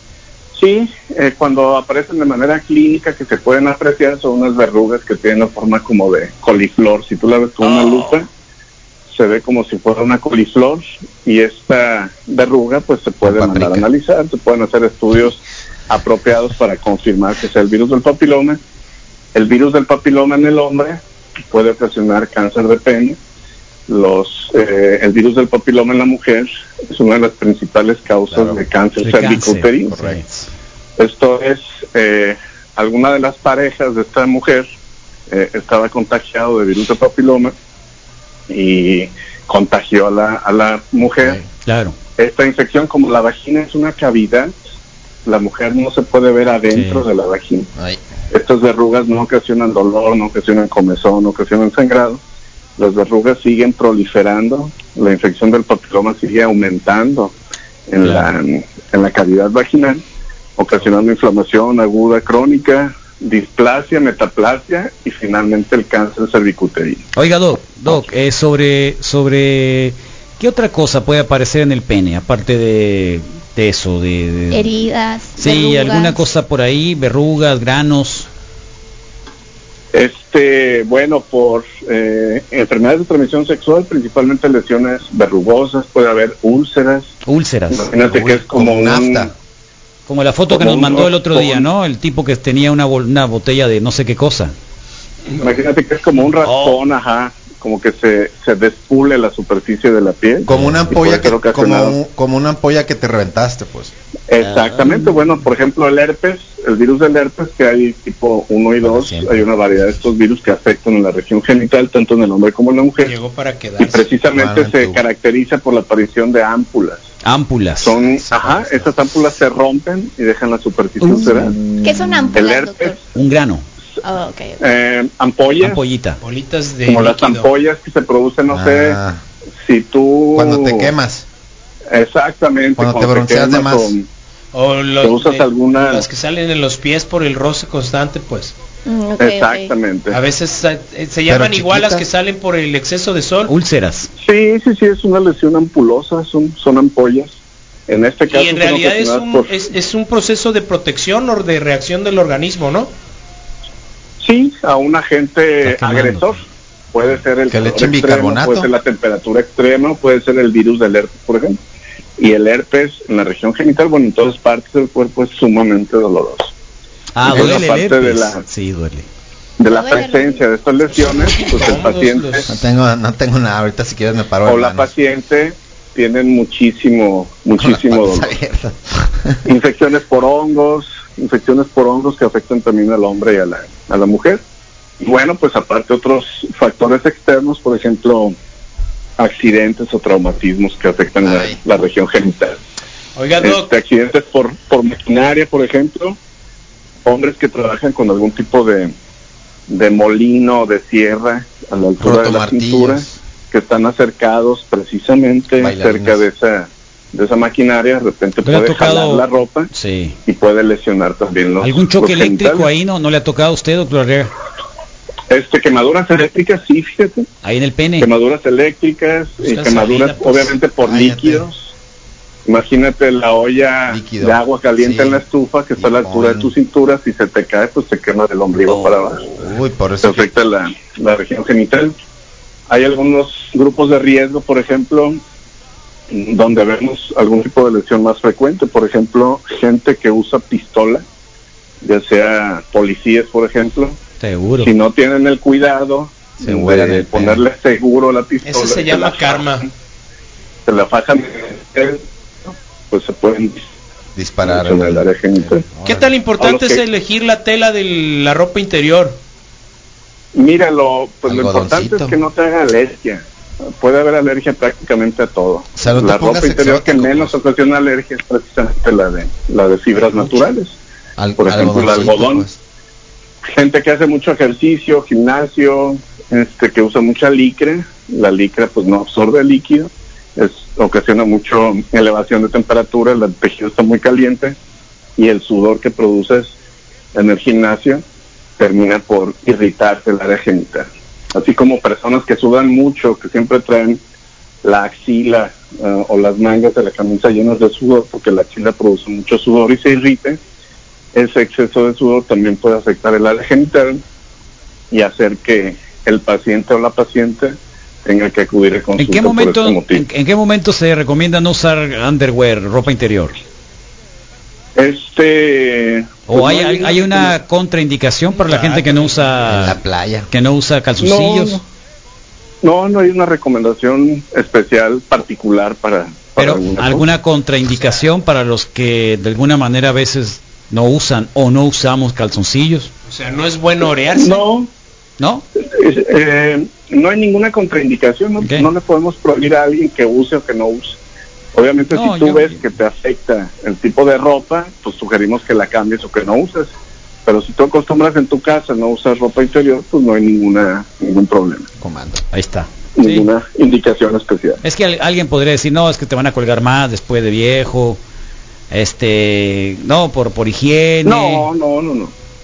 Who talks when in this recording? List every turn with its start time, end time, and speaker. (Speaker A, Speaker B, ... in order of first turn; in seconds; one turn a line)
Speaker A: 0.5-8.3
Speaker B: 7.6-8.1
Speaker A: 9.1-18.6
Speaker C: 13.2-13.9
Speaker A: 19.3-23.2
Speaker A: 23.9-30.1
Speaker C: 28.3-28.6
Speaker B: 29.0-30.5
Speaker C: 29.9-30.2
Speaker A: 31.0-34.6
Speaker A: 35.3-37.5
Speaker A: 38.5-41.4
Speaker C: 41.2-41.4
Speaker B: 41.6-41.9
Speaker A: 42.2-44.5
Speaker A: 45.2-47.7
Speaker B: 46.7-47.0
Speaker C: 47.7-48.0
Speaker A: 48.3-52.2
Speaker A: 52.8-57.3
Speaker A: 57.9-60.0
Speaker B: 58.0-58.3
Speaker A: 60.6-67.0
Speaker B: 67.1-74.7
Speaker D: 74.5-76.2
Speaker B: 75.3-78.3
Speaker A: 79.9-87.1
Speaker B: 87.2-87.9
Speaker A: 87.7-89.3
Speaker C: 88.1-89.3
Speaker B: 90.1-94.5
Speaker A: 90.5-91.7
Speaker A: 95.4-102.0
Speaker B: 96.4-96.8
Speaker C: 100.5-103.9
Speaker A: 104.3-113.1
Speaker B: 104.5-105.0
Speaker C: 108.8-109.5
Speaker E: 113.0-114.1
Speaker A: 113.8-117.0
Speaker C: 114.3-115.0
Speaker B: 117.2-118.0
Speaker A: 117.8-121.5
Speaker C: 117.9-119.0
Speaker B: 121.0-121.5
Speaker D: 121.8-123.0
Speaker A: 122.3-122.9
Speaker B: 123.1-123.6
Speaker D: 124.0-124.6
Speaker A: 124.6-125.8
Speaker B: 125.6-126.2
Speaker E: 126.2-127.5
Speaker A: 126.9-129.0
Speaker C: 128.5-129.2
Speaker A: 129.6-130.9
Speaker C: 130.3-131.2
Speaker A: 131.9-134.1
Speaker C: 132.8-133.9
Speaker E: 134.5-138.5
Speaker A: 135.0-136.1
Speaker D: 138.8-139.7
Speaker A: 139.2-140.2
Speaker E: 140.1-143.5
Speaker C: 141.3-142.1
Speaker B: 143.5-144.1
Speaker A: 144.2-147.3
Speaker A: 147.9-149.5
Speaker E: 148.3-152.9
Speaker A: 154.2-156.4
Speaker B: 155.6-156.3
Speaker A: 156.9-161.6
Speaker C: 157.5-158.7
Speaker A: 162.2-166.5
Speaker B: 167.1-169.1
Speaker A: 167.2-168.4
Speaker A: 169.6-172.5
Speaker D: 169.7-171.5
Speaker E: 171.5-172.5
Speaker C: 172.5-174.9
Speaker A: 174.4-178.3
Speaker C: 177.6-179.4
Speaker A: 179.4-184.4
Speaker A: 185.0-188.3
Speaker A: 189.2-192.6
Speaker C: 191.2-191.6
Speaker E: 193.2-193.7
Speaker A: 193.4-196.2
Speaker A: 197.0-198.9
Speaker A: 199.7-209.7
Speaker C: 202.0-203.2
Speaker C: 205.6-206.2
Speaker B: 208.4-210.2
Speaker A: 210.2-212.7
Speaker B: 211.6-214.3
Speaker A: 215.3-217.3
Speaker B: 217.4-218.1
Speaker A: 218.0-221.7
Speaker E: 219.4-220.6
Speaker C: 220.8-221.5
Speaker A: 222.4-229.3
Speaker C: 223.9-225.2
Speaker C: 225.8-226.5
Speaker B: 228.7-229.0
Speaker C: 229.3-230.3
Speaker A: 230.0-231.9
Speaker A: 232.7-235.2
Speaker A: 236.1-241.0
Speaker A: 241.8-244.0
Speaker B: 244.2-244.7
Speaker A: 244.6-249.5
Speaker C: 246.4-247.4
Speaker E: 248.4-249.7
Speaker A: 250.7-252.0
Speaker A: 252.9-253.6
Speaker C: 254.2-256.1
Speaker A: 254.4-255.6
Speaker E: 255.8-259.2
Speaker A: 256.4-256.8
Speaker A: 260.3-263.2
Speaker C: 261.2-262.2
Speaker A: 263.8-270.8
Speaker C: 265.8-267.4
Speaker C: 269.9-270.4
Speaker C: 271.2-272.6
Speaker A: 271.4-272.4
Speaker A: 273.5-284.6
Speaker A: 285.2-286.5
Speaker A: 287.1-288.0
Speaker A: 288.6-294.0
Speaker A: 294.6-300.4
Speaker A: 301.1-304.0
Speaker A: 304.9-310.0
Speaker B: 309.0-313.3
Speaker A: 314.8-317.4
Speaker B: 316.3-319.8
Speaker E: 318.3-319.7
Speaker C: 319.5-320.3
Speaker B: 320.3-321.6
Speaker A: 321.0-321.6
Speaker A: 322.6-327.1
Speaker B: 326.4-332.9
Speaker E: 333.1-334.4
Speaker A: 334.1-334.7
Speaker B: 335.2-335.4
Speaker A: 335.6-341.0
Speaker B: 338.4-338.7
Speaker A: 341.5-346.7
Speaker B: 341.9-342.6
Speaker A: 347.2-351.7
Speaker C: 351.8-352.2
Speaker B: 352.3-353.3
Speaker A: 353.0-354.6
Speaker B: 354.6-358.0
Speaker B: 358.7-361.5
Speaker A: 361.0-362.1